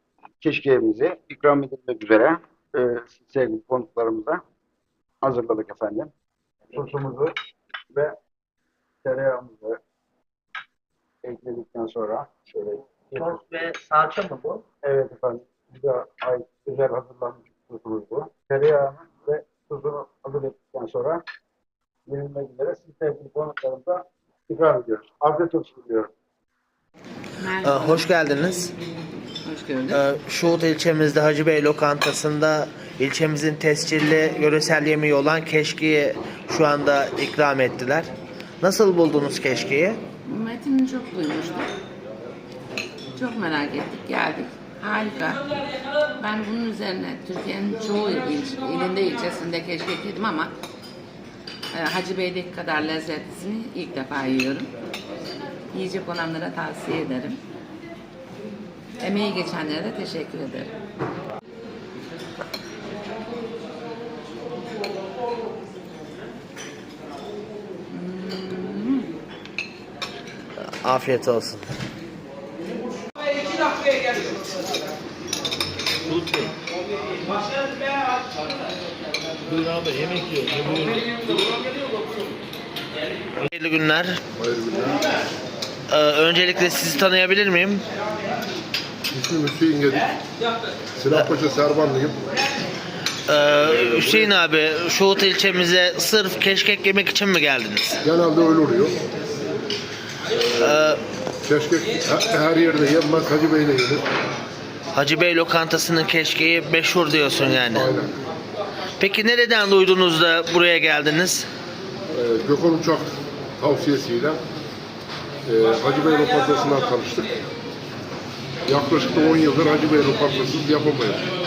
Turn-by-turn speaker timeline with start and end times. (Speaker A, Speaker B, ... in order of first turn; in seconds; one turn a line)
Speaker A: 0.4-4.4
Speaker A: 5.2-6.1
Speaker A: 6.7-7.3
Speaker A: 9.0-9.8
Speaker A: 11.2-13.4
Speaker B: 13.2-14.6
Speaker A: 14.8-21.2
Speaker A: 22.1-26.1
Speaker C: 27.4-28.1
Speaker B: 27.5-28.7
Speaker C: 29.4-30.0
Speaker B: 29.9-38.1
Speaker B: 38.6-40.0
Speaker C: 40.3-41.7
Speaker C: 43.2-45.4
Speaker C: 46.2-50.5
Speaker C: 51.7-54.7
Speaker C: 55.7-57.4
Speaker C: 59.0-60.7
Speaker C: 67.9-69.1
Speaker B: 70.6-71.7
Speaker B: 76.1-76.5
Speaker B: 79.5-80.5
Speaker B: 83.4-84.2
Speaker D: 84.3-85.0
Speaker B: 85.9-87.8
Speaker D: 89.1-90.1
Speaker D: 91.0-92.2
Speaker B: 93.3-98.0
Speaker D: 93.6-94.3
Speaker D: 98.0-99.0
Speaker D: 100.4-100.8
Speaker B: 100.5-101.0
Speaker D: 101.4-104.0
Speaker B: 104.9-107.9
Speaker D: 107.4-108.2
Speaker B: 109.0-111.5
Speaker D: 112.1-114.4
Speaker D: 115.5-117.3
Speaker D: 118.7-121.3